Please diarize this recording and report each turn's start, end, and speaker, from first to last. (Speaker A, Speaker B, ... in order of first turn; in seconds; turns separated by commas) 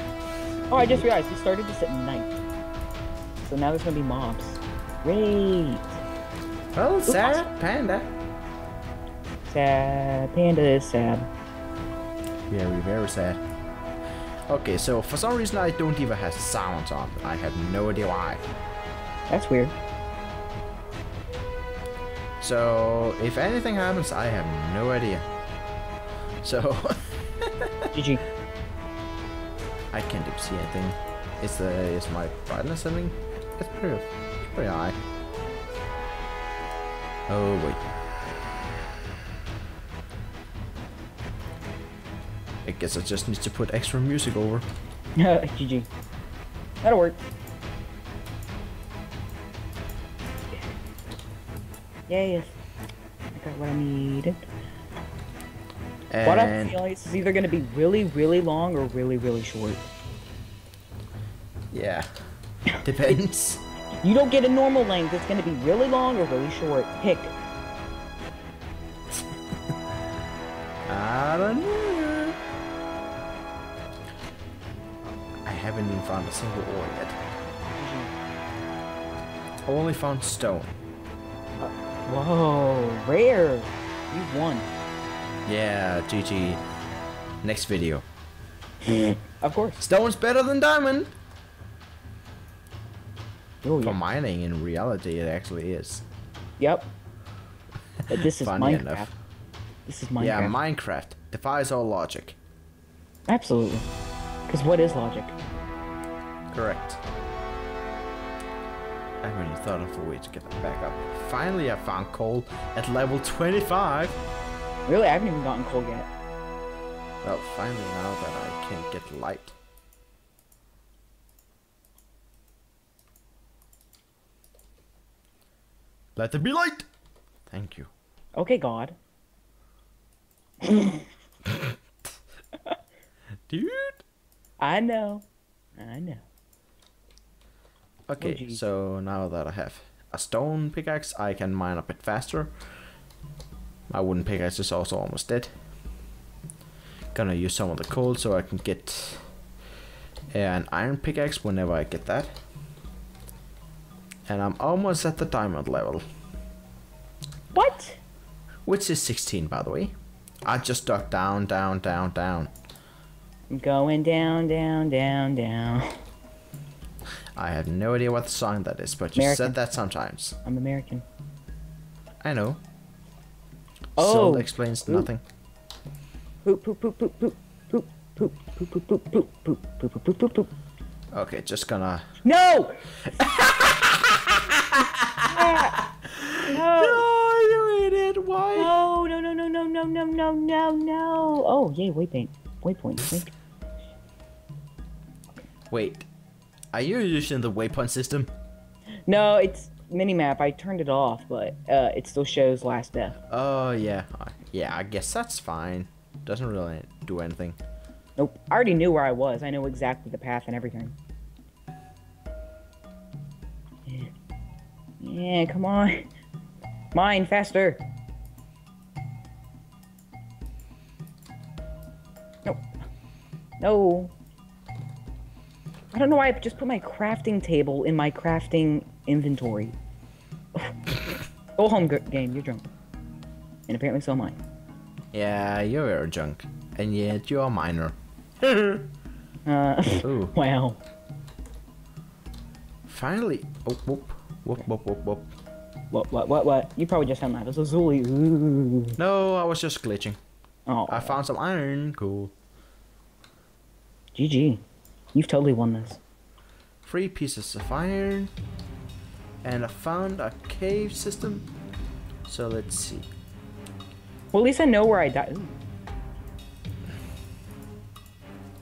Speaker A: 0.7-2.4, Speaker B: 0.8-1.1, Speaker A: 3.4-6.0, Speaker B: 6.8-8.1, Speaker A: 7.1-7.5, Speaker A: 9.5-11.3, Speaker B: 12.5-13.4, Speaker B: 14.5-18.4, Speaker A: 19.3-19.8, Speaker B: 22.4-25.3, Speaker B: 26.4-27.9, Speaker A: 27.9-28.2, Speaker B: 29.9-35.0, Speaker B: 37.3-37.8, Speaker B: 42.6-44.7, Speaker A: 45.2-45.9, Speaker A: 46.8-47.2, Speaker A: 52.1-52.6, Speaker A: 53.3-54.4, Speaker B: 56.1-56.8, Speaker A: 56.2-59.9, Speaker B: 61.7-62.1, Speaker A: 62.7-63.2, Speaker B: 62.8-63.6, Speaker A: 64.0-67.3, Speaker B: 70.9-72.4, Speaker B: 75.5-77.2, Speaker A: 77.8-78.1, Speaker B: 79.7-80.7, Speaker A: 81.6-84.7, Speaker B: 85.5-86.6, Speaker B: 87.4-88.0, Speaker A: 88.8-89.8, Speaker B: 89.8-91.1, Speaker A: 93.6-94.0, Speaker B: 93.8-96.0, Speaker A: 96.6-96.9, Speaker A: 98.1-99.1, Speaker B: 98.2-99.1, Speaker A: 99.9-100.6, Speaker B: 100.2-102.4, Speaker A: 103.3-103.9, Speaker A: 104.5-105.4, Speaker B: 106.5-107.0, Speaker B: 109.2-114.2, Speaker A: 114.9-116.1, Speaker B: 117.2-119.6, Speaker B: 126.2-126.9, Speaker B: 127.5-127.9, Speaker A: 128.4-129.0, Speaker A: 130.6-131.1, Speaker B: 131.5-131.8, Speaker B: 133.5-134.0, Speaker A: 134.6-136.2, Speaker B: 138.1-142.5, Speaker A: 138.2-138.6, Speaker B: 143.9-145.5, Speaker B: 147.1-149.2, Speaker B: 150.3-152.3, Speaker B: 154.3-156.0, Speaker A: 157.5-158.0, Speaker B: 158.7-159.9, Speaker B: 160.5-162.5, Speaker A: 163.5-166.0, Speaker B: 167.4-170.4, Speaker A: 169.2-169.6, Speaker A: 170.4-171.0, Speaker B: 172.2-172.6, Speaker A: 174.0-175.1, Speaker B: 174.0-175.2, Speaker A: 176.4-180.5, Speaker B: 181.1-182.1, Speaker A: 182.2-183.2, Speaker B: 183.2-188.8, Speaker A: 185.3-185.8, Speaker A: 186.5-187.1, Speaker A: 188.6-193.3, Speaker B: 195.7-196.1, Speaker B: 196.7-198.3, Speaker A: 199.1-203.2, Speaker B: 203.3-207.6, Speaker A: 208.2-211.0, Speaker A: 213.9-214.1, Speaker A: 215.0-216.1, Speaker A: 216.9-217.8, Speaker A: 223.6-224.1, Speaker A: 225.9-229.8, Speaker A: 230.6-230.9, Speaker A: 231.6-232.7, Speaker A: 233.7-234.4, Speaker B: 235.1-238.9, Speaker A: 239.5-240.8, Speaker B: 240.0-240.3, Speaker B: 242.9-245.3, Speaker A: 245.9-249.0, Speaker B: 249.0-250.2, Speaker A: 250.7-251.2, Speaker B: 250.9-252.3, Speaker A: 254.2-254.6, Speaker A: 255.1-256.0, Speaker B: 256.8-258.3, Speaker B: 259.4-261.5, Speaker B: 262.3-263.1, Speaker A: 264.3-265.6